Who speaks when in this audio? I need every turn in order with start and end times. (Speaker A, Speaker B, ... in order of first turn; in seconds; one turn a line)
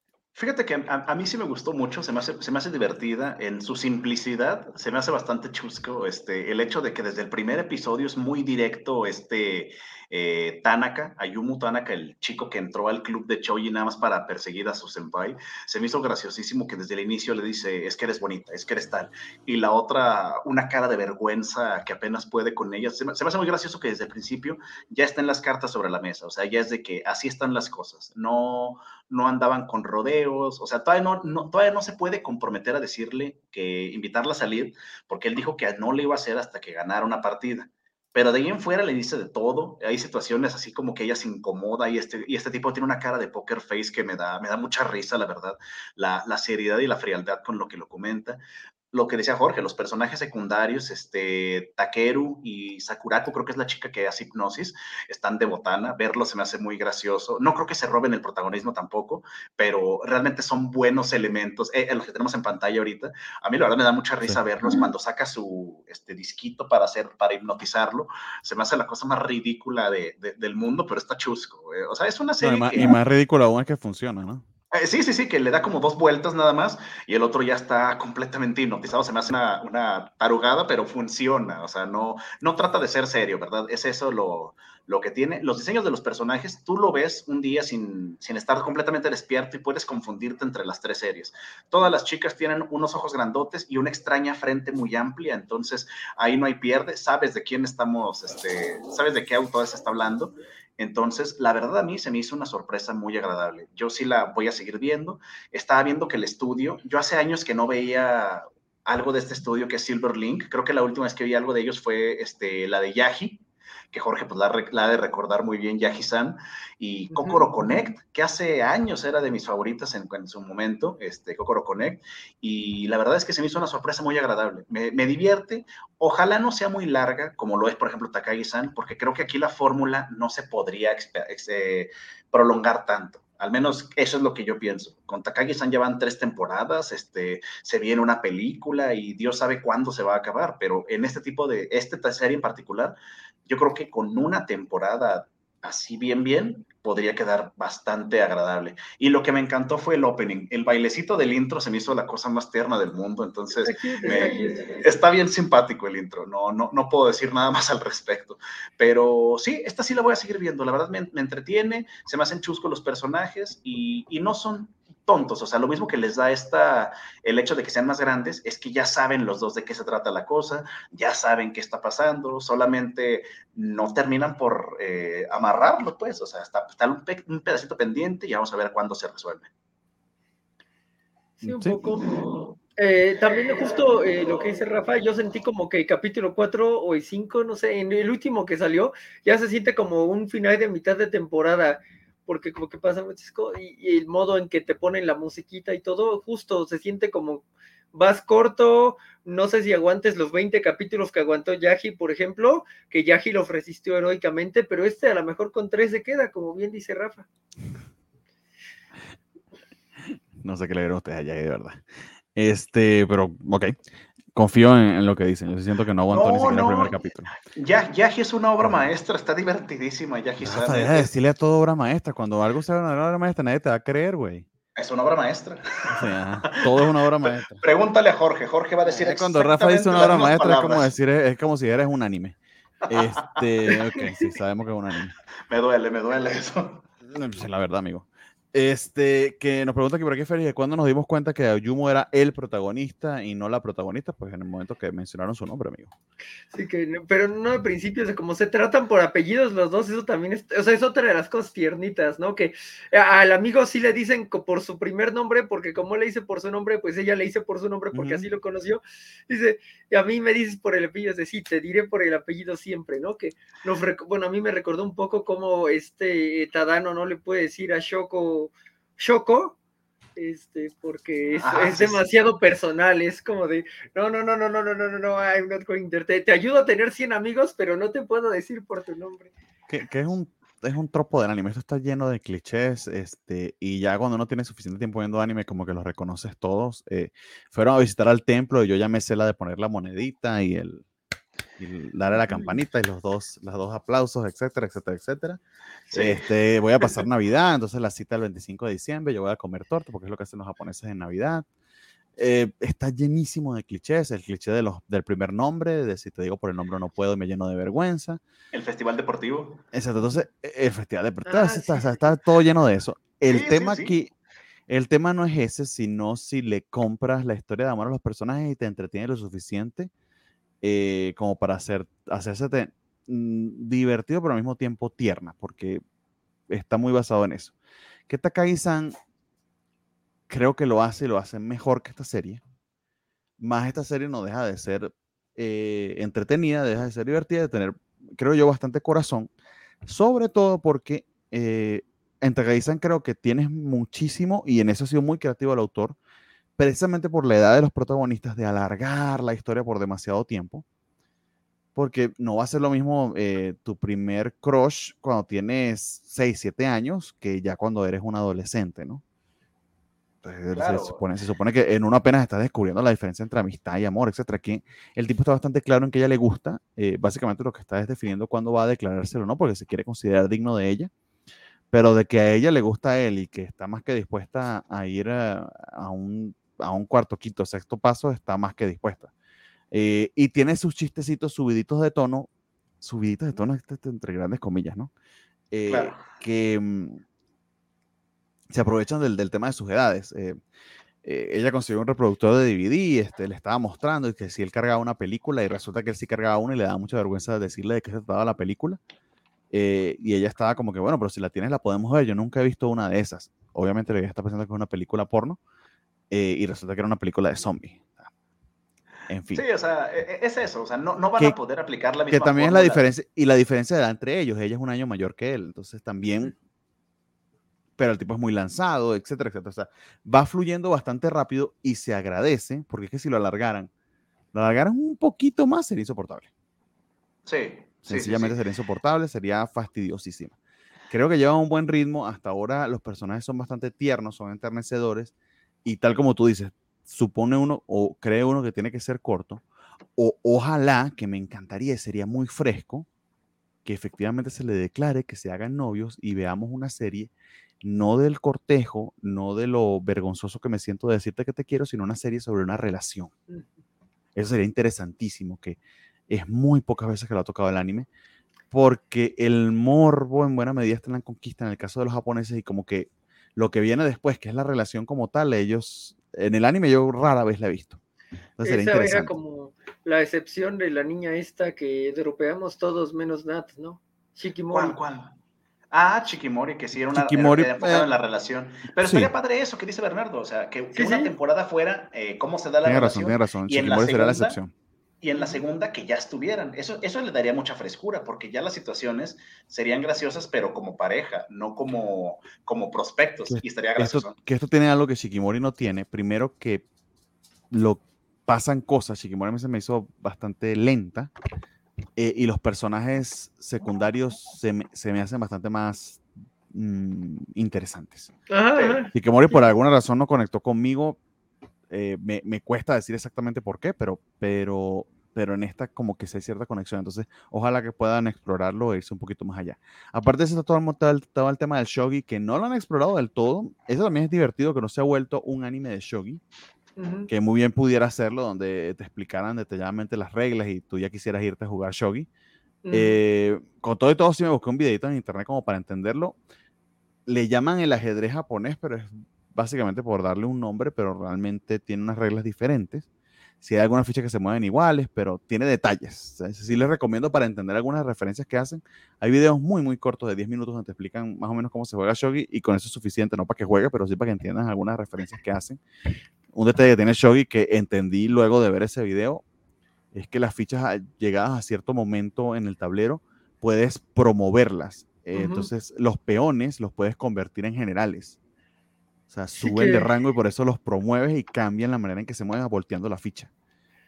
Speaker A: 0.4-48.4
Speaker A: 48.9-72.9
Speaker B: 72.4-74.5
Speaker A: 74.7-143.0
Speaker C: 117.1-117.5
Speaker A: 143.5-179.5
Speaker C: 153.6-154.8
Speaker B: 181.4-181.8
Speaker C: 181.4-182.2
Speaker A: 182.1-182.5
Speaker C: 182.8-207.3
Speaker B: 210.4-211.8
Speaker B: 212.3-213.7
Speaker B: 214.3-217.3
Speaker A: 216.1-217.0
Speaker A: 217.5-221.1
Speaker B: 220.4-224.5
Speaker A: 224.8-230.9
Speaker B: 225.9-227.6
Speaker B: 228.9-232.4
Speaker A: 232.9-233.4
Speaker B: 232.9-235.2
Speaker A: 235.5-236.8
Speaker B: 237.1-245.9
Speaker C: 246.5-269.6
Speaker B: 257.9-258.3
Speaker C: 270.2-279.3
Speaker A: 271.4-272.0
Speaker B: 279.7-290.9
Speaker B: 291.6-295.4
Speaker A: 295.9-296.2
Speaker B: 295.9-301.4
Speaker B: 302.2-308.2
Speaker A: 308.5-309.6
Speaker B: 309.7-314.1
Speaker C: 311.3-312.0
Speaker A: 313.3-314.0
Speaker B: 314.7-319.9
Speaker B: 320.6-325.8
Speaker B: 326.5-327.5
Speaker B: 328.1-328.9
Speaker B: 330.3-332.4
Speaker B: 333.4-339.3
Speaker B: 339.9-346.0
Speaker B: 346.6-350.6
Speaker B: 351.8-359.0
Speaker B: 360.2-370.9
Speaker A: 360.5-361.0
Speaker B: 371.7-379.1
Speaker B: 379.7-382.3
Speaker B: 382.8-384.9
Speaker B: 385.5-387.0
Speaker A: 385.7-386.0
Speaker B: 388.5-390.4
Speaker B: 391.0-398.8
Speaker B: 399.5-405.4
Speaker B: 406.1-408.1
Speaker B: 409.1-409.4
Speaker A: 409.3-412.8
Speaker B: 412.1-416.3
Speaker B: 417.8-423.7
Speaker B: 424.3-426.3
Speaker A: 427.3-428.4
Speaker B: 427.9-430.4
Speaker B: 430.9-435.1
Speaker B: 435.6-439.4
Speaker B: 440.0-442.9
Speaker B: 443.6-447.1
Speaker B: 447.6-453.1
Speaker B: 454.2-457.9
Speaker B: 458.5-467.8
Speaker B: 468.4-469.1
Speaker C: 468.4-474.8
Speaker A: 474.5-475.1
Speaker A: 475.7-484.4
Speaker B: 476.9-477.9
Speaker B: 478.8-479.1
Speaker C: 480.7-481.1
Speaker B: 482.6-484.5
Speaker A: 485.0-494.1
Speaker B: 493.3-496.6
Speaker B: 497.5-501.1
Speaker B: 502.0-508.1
Speaker C: 508.3-508.9
Speaker A: 508.6-508.8
Speaker B: 508.9-511.0
Speaker B: 511.7-526.2
Speaker C: 526.8-527.1
Speaker B: 527.1-532.1
Speaker C: 532.6-533.0
Speaker B: 532.7-536.2
Speaker B: 537.1-542.9
Speaker B: 543.4-555.6
Speaker B: 556.3-559.2
Speaker B: 559.9-568.2
Speaker C: 565.1-565.5
Speaker B: 569.1-573.3
Speaker C: 569.4-569.9